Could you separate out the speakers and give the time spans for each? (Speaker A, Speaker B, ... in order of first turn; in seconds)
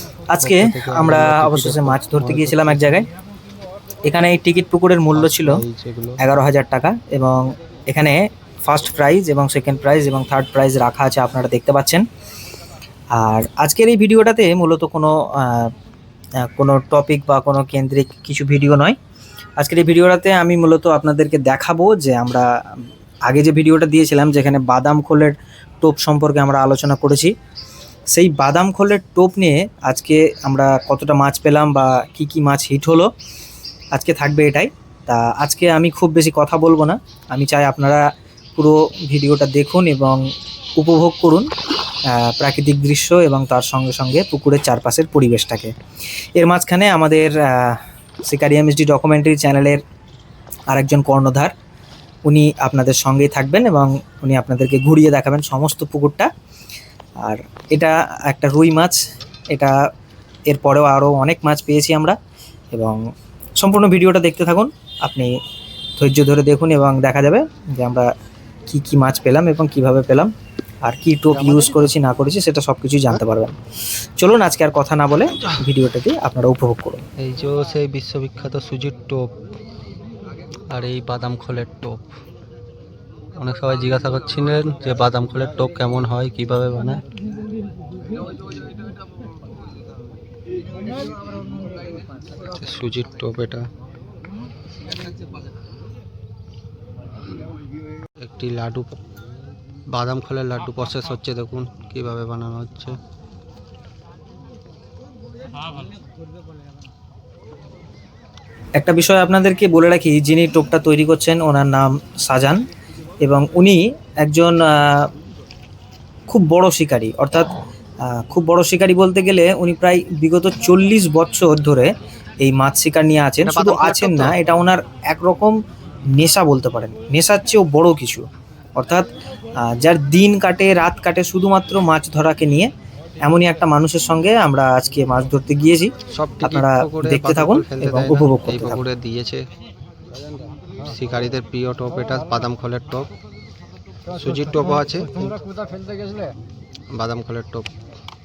Speaker A: 0.3-3.1, 4.0-5.6, 6.2-12.0, 13.2-15.7, 16.5-18.9, 19.6-22.4, 23.2-27.3, 28.1-33.1, 33.9-38.0, 38.6-40.2, 40.8-41.5, 42.1-45.7, 46.4-49.8, 50.7-51.5, 52.2-56.3, 57.2-59.0, 60.5-62.2, 62.7-63.0, 63.6-65.3, 66.0-68.1, 68.7-70.3, 70.8-73.6, 74.2-77.0, 108.8-112.6, 113.2-115.1, 116.3-117.5, 118.0-125.6, 126.1-132.7, 133.2-138.8
Speaker B: 0.4-3.0, 5.1-6.2, 71.3-71.9, 77.2-79.3, 80.7-82.0, 83.3-87.0, 92.4-93.7, 98.2-99.0, 99.9-103.0, 123.4-124.5, 136.1-139.5, 140.8-143.1, 144.1-145.4, 146.9-147.7